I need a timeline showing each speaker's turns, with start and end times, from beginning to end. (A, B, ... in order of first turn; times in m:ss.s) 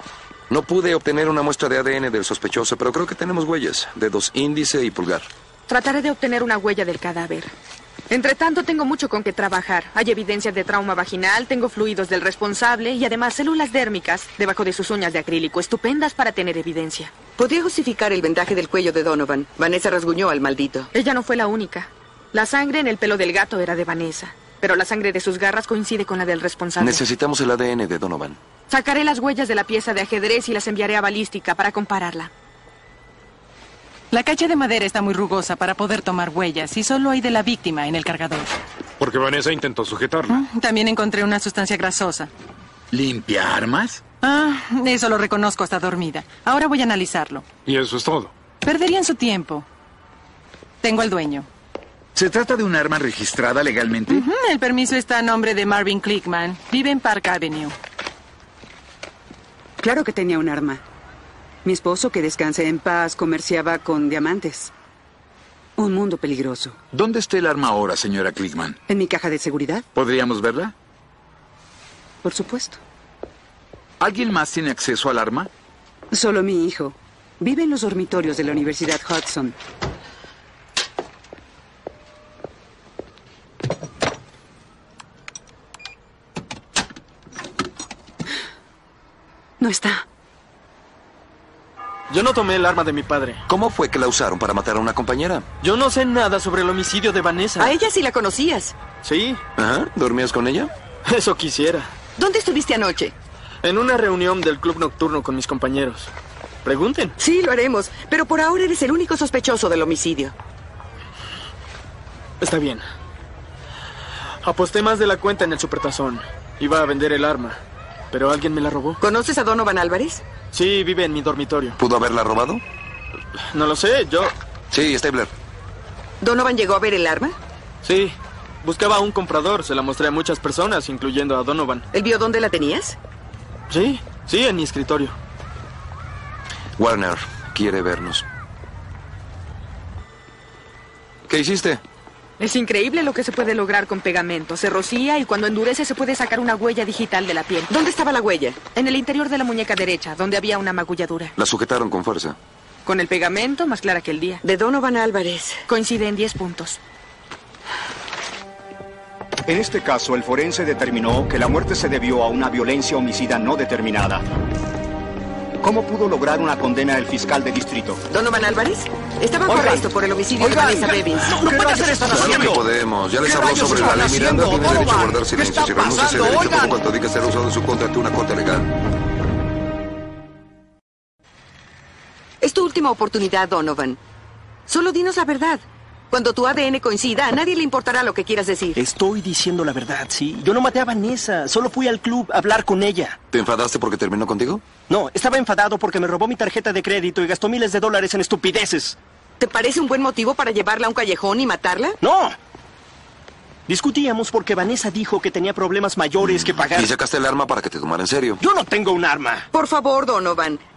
0:00.5-0:05.3 A
0:05.7-0:07.5 B
0:08.1-0:17.2 B
0:17.4-0:20.9 C
0:20.9-0:27.0 B
0:26.8-0:28.4 A
0:28.7-0:32.3 B
0:34.1-0:38.5 D
0:39.0-0:40.4 E
0:40.3-0:42.3 D
0:42.9-0:44.0 F
0:44.2-0:47.5 D
0:47.7-0:48.3 E
0:48.6-0:49.7 D
0:50.8-0:51.5 D
0:52.2-0:54.3 F
0:54.1-0:57.8 D
0:59.8-1:00.8 G
1:01.6-1:04.7 G
1:05.8-1:06.8 G
1:06.9-1:08.8 F
1:08.9-1:09.9 G
1:10.0-1:10.7 F
1:12.2-1:12.8 G
1:14.0-1:15.5 F
1:16.1-1:19.6 G
1:29.6-1:30.0 G
1:32.1-1:33.4 H
1:33.5-1:35.5 A
1:35.6-1:37.8 H
1:37.6-1:38.8 C
1:39.0-1:39.4 H
1:39.6-1:40.7 A
1:41.0-1:41.9 H
1:42.2-1:43.1 C
1:43.6-1:46.1 H
1:46.6-1:47.2 H
1:47.2-1:50.4 C
1:52.4-1:52.8 H
1:54.4-1:57.6 H
1:58.1-1:59.0 H
1:59.0-2:00.2 C
2:00.5-2:01.8 H
2:01.8-2:02.6 A
2:03.5-2:04.3 H
2:04.7-2:05.3 A
2:06.2-2:07.4 C
2:07.8-2:11.9 H
2:11.9-2:13.0 C
2:13.7-2:15.2 H
2:16.8-2:18.3 A
2:21.3-2:21.8 A
2:22.4-2:27.7 B
2:27.7-2:28.6 C
2:28.7-2:31.3 B
2:31.4-2:32.4 A
2:32.8-2:34.4 B
2:34.4-2:35.6 C
2:35.7-2:36.8 B
2:39.5-2:44.2 I
2:45.6-2:48.0 I
2:48.1-2:51.4 C
2:49.5-2:49.8 J
2:50.4-2:52.6 J
2:50.4-2:52.6 I
2:52.1-2:58.7 A
2:53.2-2:56.7 I
2:53.4-2:56.8 J
3:02.4-3:04.0 C
3:04.7-3:08.8 C
3:08.8-3:13.2 J
3:13.3-3:14.6 A
3:14.9-3:19.0 J
3:19.4-3:22.0 C
3:22.0-3:22.4 J
3:23.7-3:26.9 J
3:26.2-3:28.4 A
3:28.4-3:29.5 J
3:29.5-3:30.6 C